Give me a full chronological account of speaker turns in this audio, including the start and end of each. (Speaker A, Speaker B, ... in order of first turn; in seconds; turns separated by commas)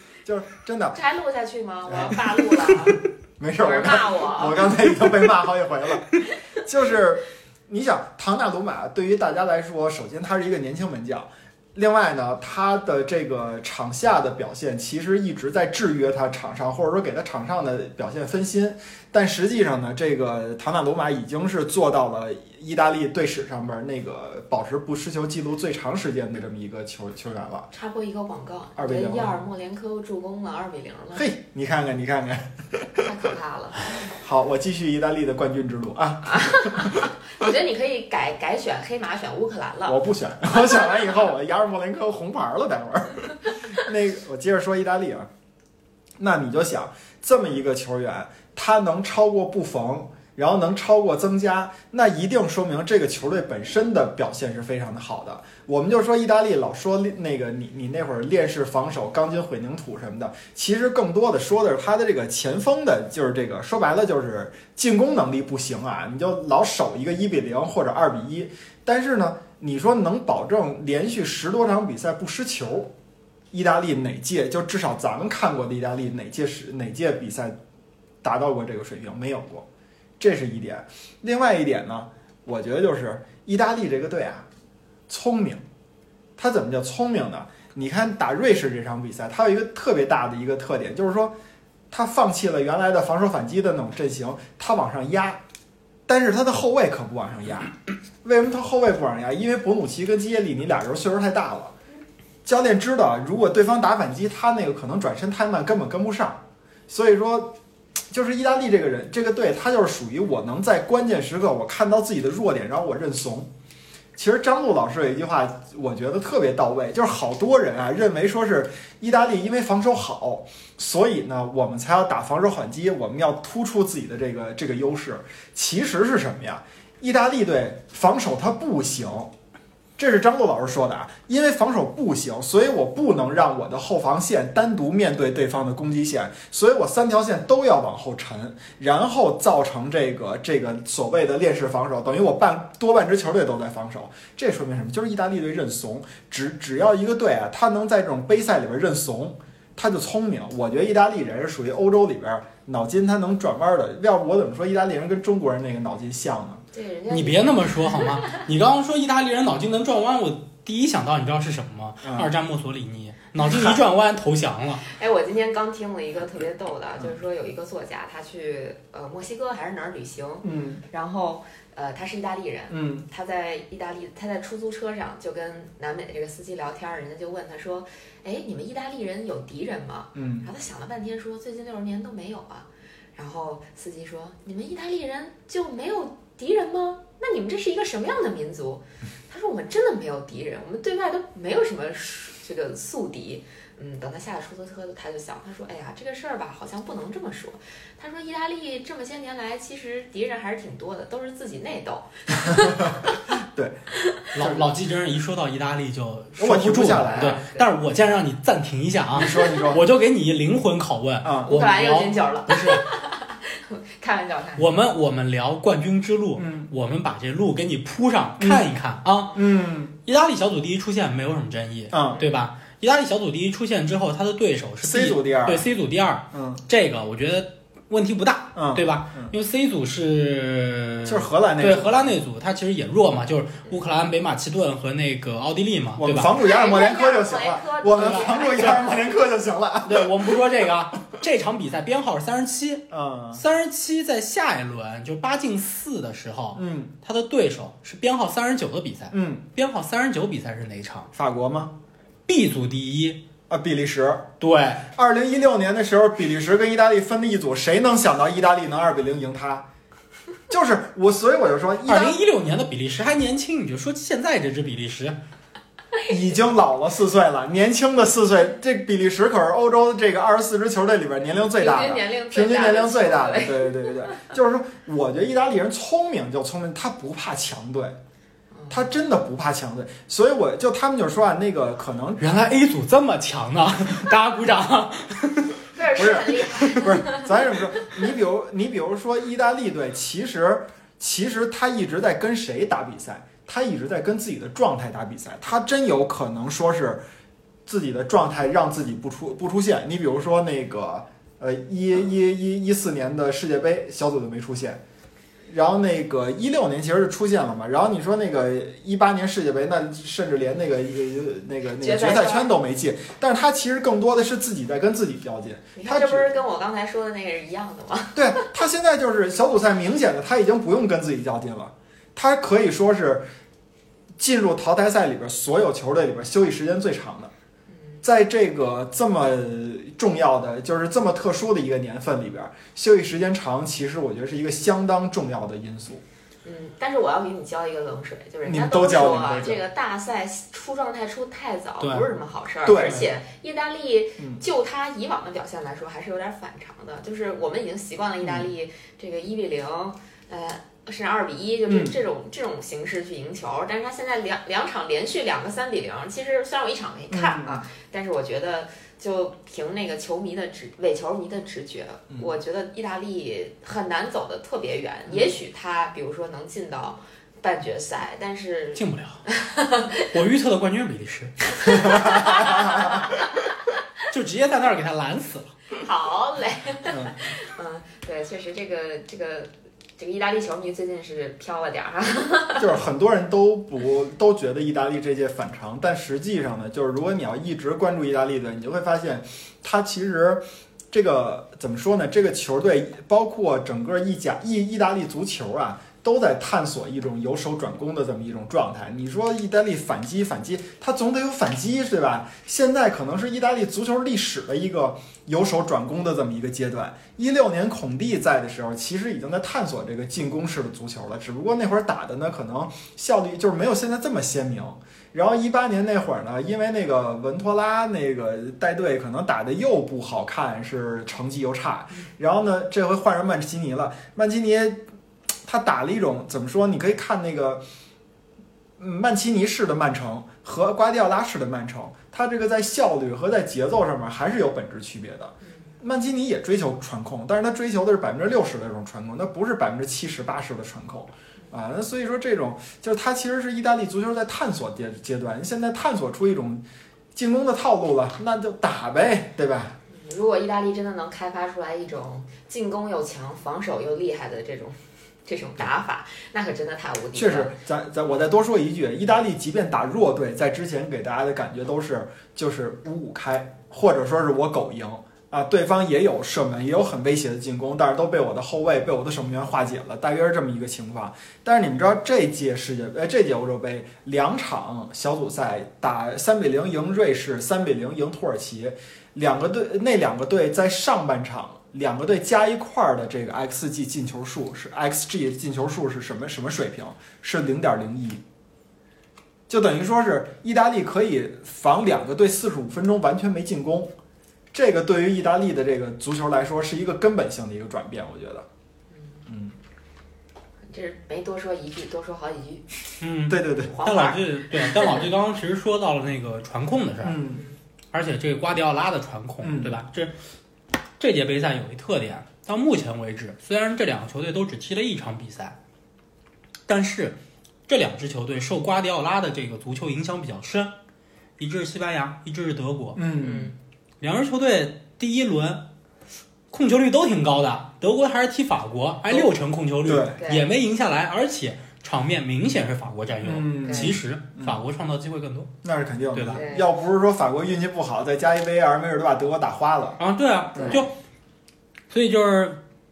Speaker A: 0.2-1.0, Speaker B: 0.9-3.0, Speaker A: 1.9-27.7, Speaker B: 3.6-4.7, Speaker B: 27.7-31.3, Speaker A: 28.8-29.4, Speaker A: 31.1-33.1, Speaker B: 33.0-33.9, Speaker A: 34.1-37.1, Speaker B: 36.2-40.0, Speaker A: 39.9-45.3, Speaker B: 40.5-41.0, Speaker A: 46.2-72.9, Speaker A: 73.5-77.6, Speaker A: 78.2-79.7, Speaker A: 80.2-84.5, Speaker A: 85.1-85.6, Speaker A: 86.4-91.3, Speaker A: 91.9-95.4, Speaker A: 96.1-97.7, Speaker A: 98.2-101.7, Speaker A: 102.4-107.5, Speaker A: 108.1-113.5, Speaker A: 114.2-129.3, Speaker A: 130.0-156.6, Speaker B: 156.7-158.0, Speaker C: 157.1-164.8, Speaker A: 162.0-162.3, Speaker A: 163.4-163.8, Speaker B: 164.8-203.2, Speaker A: 170.4-170.8, Speaker A: 172.7-173.1, Speaker A: 180.1-180.5, Speaker A: 202.4-203.8, Speaker B: 204.0-204.2, Speaker C: 204.3-212.8, Speaker A: 204.4-204.7, Speaker A: 206.4-207.4, Speaker B: 206.9-207.8, Speaker A: 209.1-209.8, Speaker B: 209.2-209.6, Speaker A: 211.2-211.6, Speaker B: 211.4-214.7, Speaker C: 214.6-219.3, Speaker A: 216.4-216.7, Speaker A: 218.4-218.7, Speaker A: 219.3-219.9, Speaker C: 220.0-236.3, Speaker A: 221.9-222.2, Speaker A: 224.8-225.7, Speaker A: 226.3-226.6, Speaker A: 228.5-229.3, Speaker A: 231.0-232.1, Speaker A: 236.0-240.4, Speaker B: 236.3-239.0, Speaker C: 238.0-238.8, Speaker C: 239.8-251.1, Speaker A: 242.9-243.4, Speaker A: 246.5-246.9, Speaker A: 249.1-249.4, Speaker A: 251.1-251.8, Speaker C: 252.3-253.2, Speaker A: 253.5-254.3, Speaker C: 254.4-254.9, Speaker A: 254.9-259.6, Speaker A: 260.5-262.2, Speaker C: 261.8-265.2, Speaker A: 266.1-278.0, Speaker B: 271.6-274.2, Speaker B: 278.5-278.9, Speaker A: 278.7-282.2, Speaker C: 282.2-285.6, Speaker B: 285.7-287.3, Speaker A: 285.9-297.0, Speaker A: 297.6-304.8, Speaker A: 305.5-316.3, Speaker B: 311.8-312.5, Speaker B: 315.8-318.5, Speaker A: 318.1-323.2, Speaker A: 324.2-327.3, Speaker A: 328.0-336.0, Speaker B: 336.4-370.1, Speaker A: 338.4-339.6, Speaker C: 341.8-342.1, Speaker A: 342.6-343.1, Speaker A: 348.2-348.5, Speaker A: 351.7-351.9, Speaker A: 357.1-357.6, Speaker C: 368.8-369.2, Speaker C: 370.1-372.5, Speaker B: 371.6-373.2, Speaker A: 371.9-372.8, Speaker C: 374.1-375.5, Speaker B: 375.8-382.7, Speaker A: 376.9-377.1, Speaker A: 382.6-424.8, Speaker A: 425.4-427.6, Speaker A: 428.8-446.6, Speaker A: 447.1-449.8, Speaker B: 449.9-457.6, Speaker A: 457.1-488.2, Speaker A: 489.5-493.9, Speaker A: 494.5-498.4, Speaker A: 499.3-499.6, Speaker B: 500.7-502.6, Speaker C: 503.0-507.2, Speaker A: 503.3-503.8, Speaker B: 503.5-505.1, Speaker A: 507.0-507.4, Speaker C: 507.9-510.1, Speaker A: 509.4-509.8, Speaker C: 511.0-515.6, Speaker C: 516.7-517.2, Speaker C: 517.7-520.7, Speaker C: 521.4-523.0, Speaker A: 523.0-523.5, Speaker B: 523.2-523.5, Speaker C: 524.0-525.7, Speaker C: 526.5-535.5, Speaker A: 529.8-530.2, Speaker B: 530.2-530.5, Speaker A: 533.2-534.6, Speaker B: 533.6-534.0, Speaker A: 535.6-540.0, Speaker C: 536.1-536.4, Speaker B: 536.3-536.7, Speaker C: 540.0-540.9, Speaker A: 540.5-540.8, Speaker B: 540.6-540.9, Speaker C: 541.9-542.6